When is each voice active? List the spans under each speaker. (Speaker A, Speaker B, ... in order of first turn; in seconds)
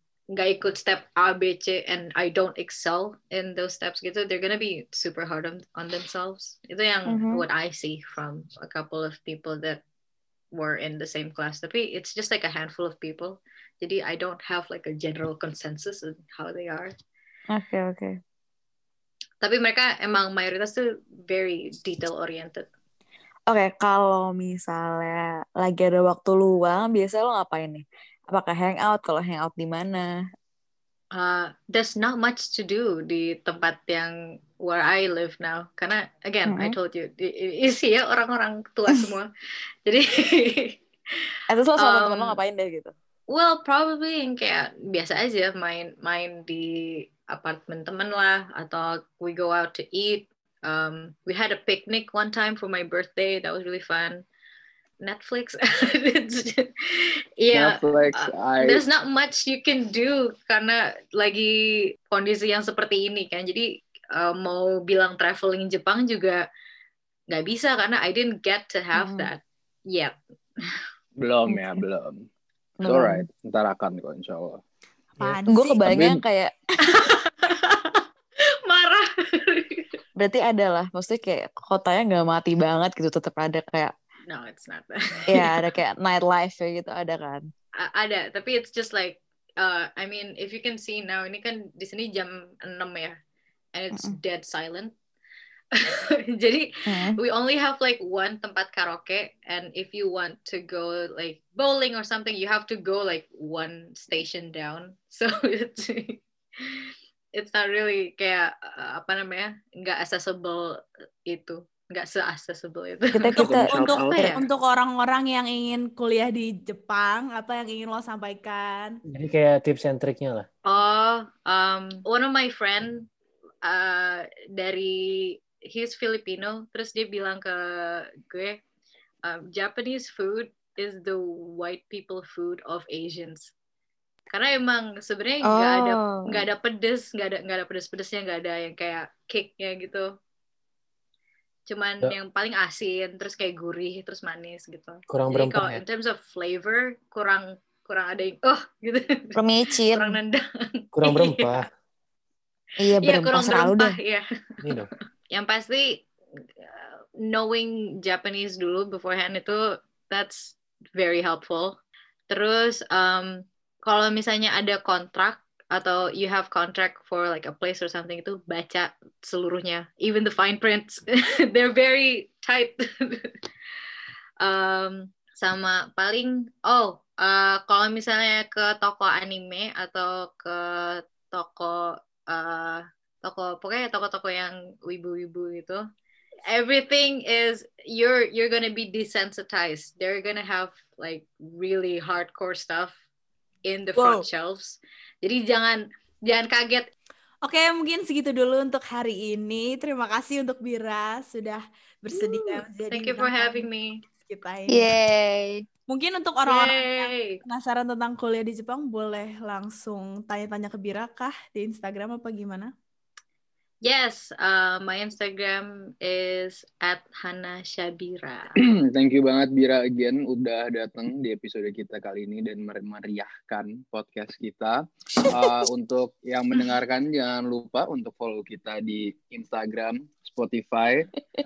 Speaker A: 0.3-9.8, 10.5-16.9, 19.4-22.7, 31.1-39.3, 39.9-40.8, 41.8-42.4, 43.3-54.2, 55.0-66.4, 67.3-70.2, 76.9-78.0, 78.7-79.8, 84.3-85.5, 87.8-93.2, 93.7-94.9, 95.8-106.8, 107.4-114.5, 120.7-123.1, 123.7-128.6, 129.2-133.5, 134.3-140.1, 141.7-151.5, 153.0-154.7, 155.3-156.1, 156.6-161.8, 162.3-173.3, 174.4-185.8, 186.5-193.0, 193.7-196.9, 202.2-204.0, 206.4-207.4, 213.8-218.6
Speaker B: 7.1-7.5, 17.5-18.2, 23.5-30.1, 36.5-36.8, 41.5-42.9, 69.0-69.3, 71.5-71.8, 72.8-73.3, 75.5-76.5, 80.2-83.9, 85.3-87.5, 96.9-97.2, 113.1-114.3, 135.4-136.4, 149.4-150.2, 152.8-154.0, 204.7-205.6, 225.4-225.6
Speaker C: 57.5-58.8, 71.2-72.3, 72.8-74.6, 75.2-76.2, 113.4-114.3, 218.8-231.1
Speaker D: 75.2-75.9, 113.6-119.0, 194.0-194.2, 197.4-203.7, 204.2-204.9, 205.9-212.7
Speaker E: 119.1-120.5, 145.1-145.8, 150.9-151.7, 154.6-154.9